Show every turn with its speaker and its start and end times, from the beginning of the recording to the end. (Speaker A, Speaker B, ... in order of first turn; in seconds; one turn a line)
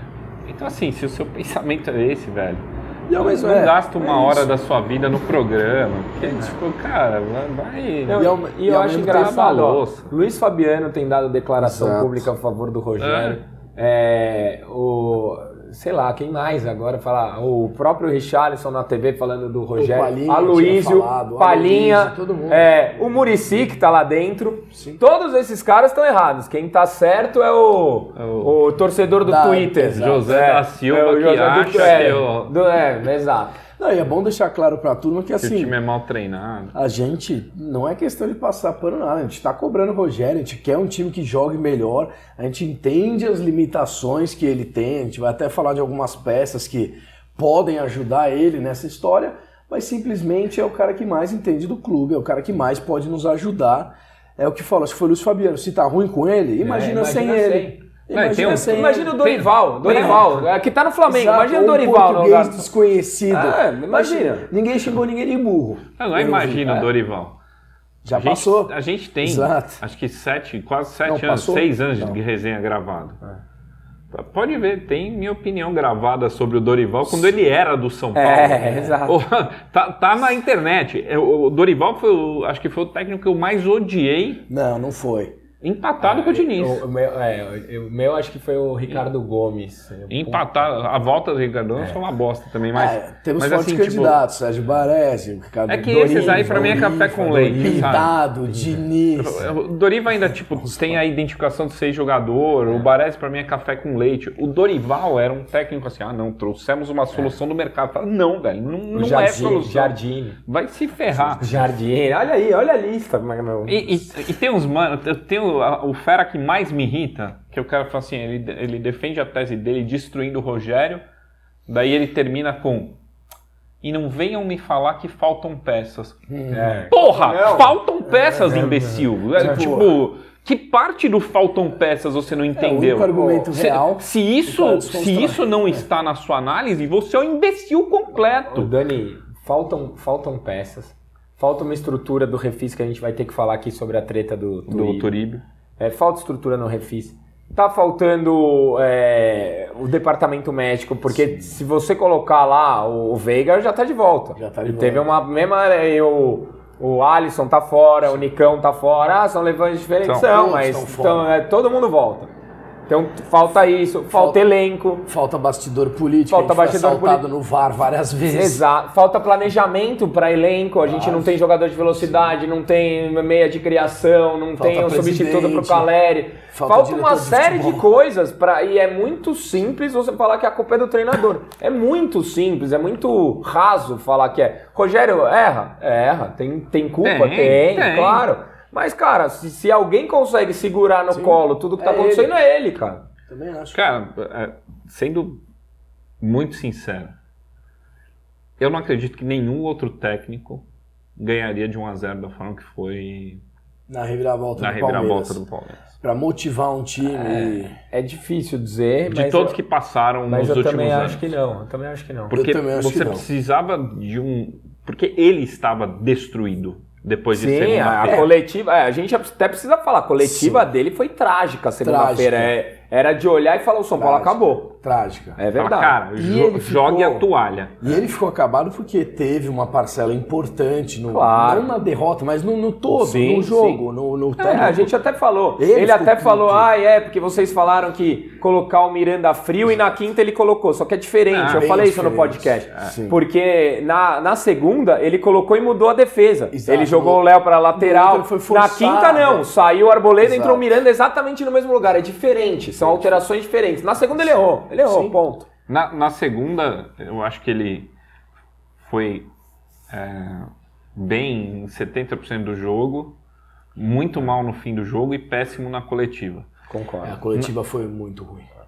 Speaker A: 0.5-8.3
Speaker B: 3.1-4.5
Speaker B: 6.2-6.5
Speaker C: 8.1-33.6
Speaker B: 8.1-9.5
Speaker A: 8.9-10.1
Speaker B: 11.6-12.3
Speaker A: 13.0-13.4
Speaker B: 19.7-22.7
Speaker B: 24.7-25.0
Speaker A: 28.1-28.5
Speaker B: 29.2-30.3
Speaker A: 29.9-32.5
Speaker B: 33.8-35.8
Speaker A: 35.4-36.7
Speaker B: 36.7-59.2
Speaker C: 56.6-57.8
Speaker A: 58.1-60.3
Speaker C: 58.4-62.7
Speaker B: 59.8-60.3
Speaker B: 61.1-66.9
Speaker C: 63.3-64.5
Speaker A: 66.0-67.4
Speaker B: 68.0-69.8
Speaker A: 68.1-73.2
Speaker B: 71.0-72.2
Speaker A: 74.1-84.4
Speaker C: 78.1-79.2
Speaker B: 84.5-85.3
Speaker A: 85.6-86.8
Speaker C: 86.0-90.7
Speaker A: 90.1-94.2
Speaker B: 92.7-99.5
Speaker A: 95.7-98.1
Speaker C: 96.2-96.9
Speaker C: 97.5-97.9
Speaker C: 98.5-98.8
Speaker A: 99.2-111.6
Speaker B: 100.5-101.0
Speaker C: 108.9-110.4
Speaker C: 111.3-114.0
Speaker A: 113.7-121.0
Speaker A: 121.7-123.0
Speaker A: 123.8-126.2
Speaker B: 126.3-126.8
Speaker C: 126.5-127.8
Speaker A: 126.8-138.7
Speaker C: 128.4-129.5
Speaker B: 129.3-129.9
Speaker B: 132.6-135.8
Speaker C: 133.1-133.5
Speaker C: 138.5-145.1
Speaker A: 144.7-145.4
Speaker C: 145.8-162.3
Speaker B: 151.1-151.5
Speaker B: 154.3-155.1
Speaker B: 160.2-161.3
Speaker C: 162.9-165.1
Speaker B: 164.1-164.4
Speaker B: 165.1-168.6
Speaker C: 166.3-167.2
Speaker C: 168.3-193.1
Speaker B: 170.8-171.3
Speaker B: 174.6-175.9
Speaker B: 176.5-177.9
Speaker A: 187.0-188.3
Speaker B: 191.1-192.3
Speaker B: 193.3-193.8
Speaker A: 193.7-195.4
Speaker A: 196.2-197.1
Speaker A: 198.6-200.7
Speaker A: 201.2-203.4
Speaker B: 203.9-205.4
Speaker A: 204.6-205.9
Speaker B: 206.0-207.8
Speaker C: 207.0-209.6
Speaker A: 209.1-211.3
Speaker C: 210.3-212.3
Speaker A: 212.3-218.3
Speaker B: 212.3-213.2
Speaker C: 217.3-224.7
Speaker B: 220.2-220.7
Speaker B: 221.8-222.5
Speaker B: 223.9-225.4
Speaker C: 225.4-226.0
Speaker A: 225.6-228.0
Speaker B: 226.2-227.2
Speaker B: 227.8-234.9
Speaker C: 231.1-231.7
Speaker C: 233.0-233.8
Speaker A: 234.4-234.7
Speaker C: 234.4-255.5
Speaker B: 235.6-236.7
Speaker A: 241.3-241.7
Speaker B: 241.5-243.2
Speaker B: 246.5-249.5
Speaker B: 250.2-250.7
Speaker B: 252.7-253.2
Speaker B: 254.8-255.2
Speaker A: 255.7-257.9
Speaker A: 258.8-259.3
Speaker A: 259.9-263.2
Speaker A: 263.8-266.5
Speaker C: 266.7-267.2
Speaker B: 267.0-268.5